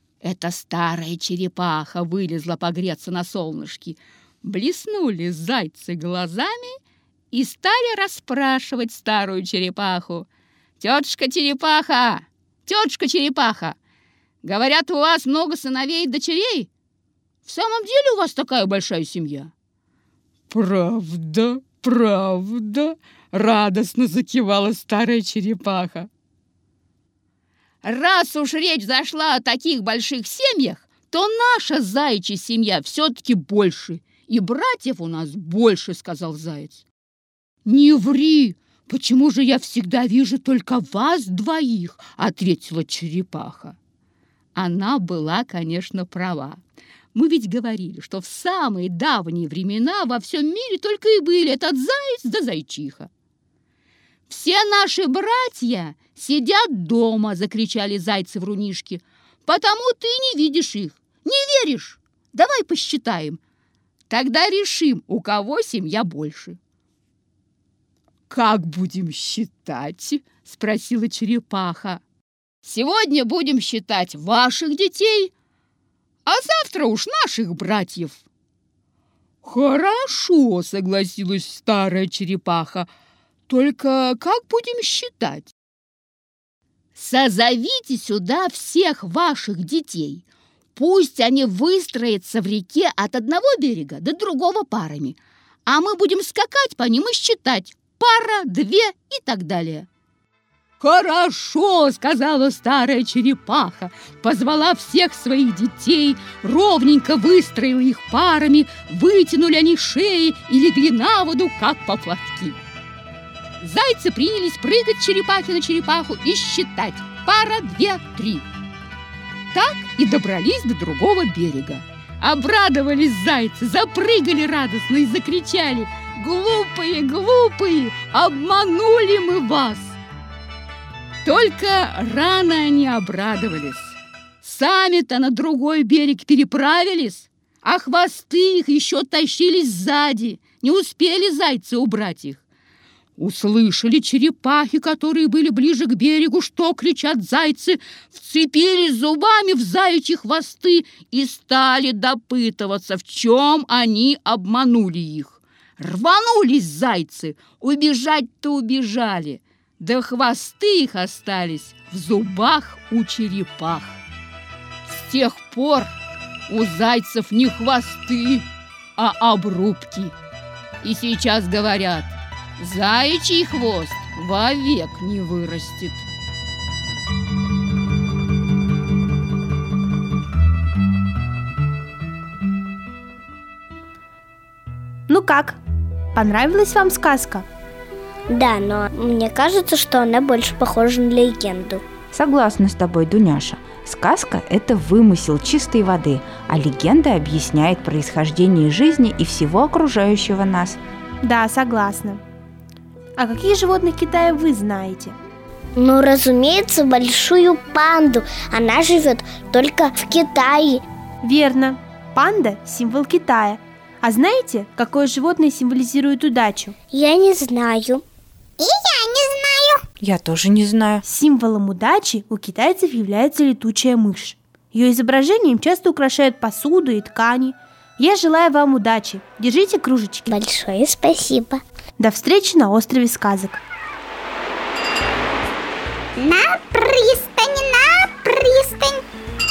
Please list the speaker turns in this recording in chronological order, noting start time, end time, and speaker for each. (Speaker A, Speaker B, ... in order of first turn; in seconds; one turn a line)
Speaker A: 0.2-6.8
Speaker A: 7.3-10.3
Speaker A: 10.8-13.8
Speaker A: 14.4-16.7
Speaker A: 17.4-19.5
Speaker A: 20.5-26.1
Speaker A: 27.8-36.8
Speaker A: 37.6-43.8
Speaker A: 44.5-46.6
Speaker A: 47.1-53.1
Speaker A: 54.3-63.4
Speaker A: 64.1-66.6
Speaker A: 68.3-72.0
Speaker A: 72.6-75.3
Speaker A: 76.2-78.2
Speaker A: 79.4-82.9
Speaker A: 83.5-85.5
Speaker A: 87.0-90.2
Speaker A: 90.8-99.9
Speaker A: 100.8-112.6
Speaker A: 113.6-118.4
Speaker A: 119.5-130.0
Speaker A: 131.2-142.4
Speaker A: 143.2-164.0
Speaker A: 164.9-165.9
Speaker A: 166.5-170.1
Speaker A: 170.8-176.0
Speaker B: 185.1-185.6
Speaker B: 186.1-187.4
Speaker C: 188.3-191.8
Speaker D: 192.1-200.8
Speaker B: 201.2-202.2
Speaker B: 203.2-205.1
Speaker C: 205.8-210.8
Speaker B: 211.2-216.7
Speaker C: 216.9-218.0
Speaker E: 218.6-219.8
Speaker D: 220.0-221.0
Speaker B: 221.1-230.2
Speaker C: 230.2-231.6
Speaker B: 232.0-233.6
Speaker E: 236.2-239.0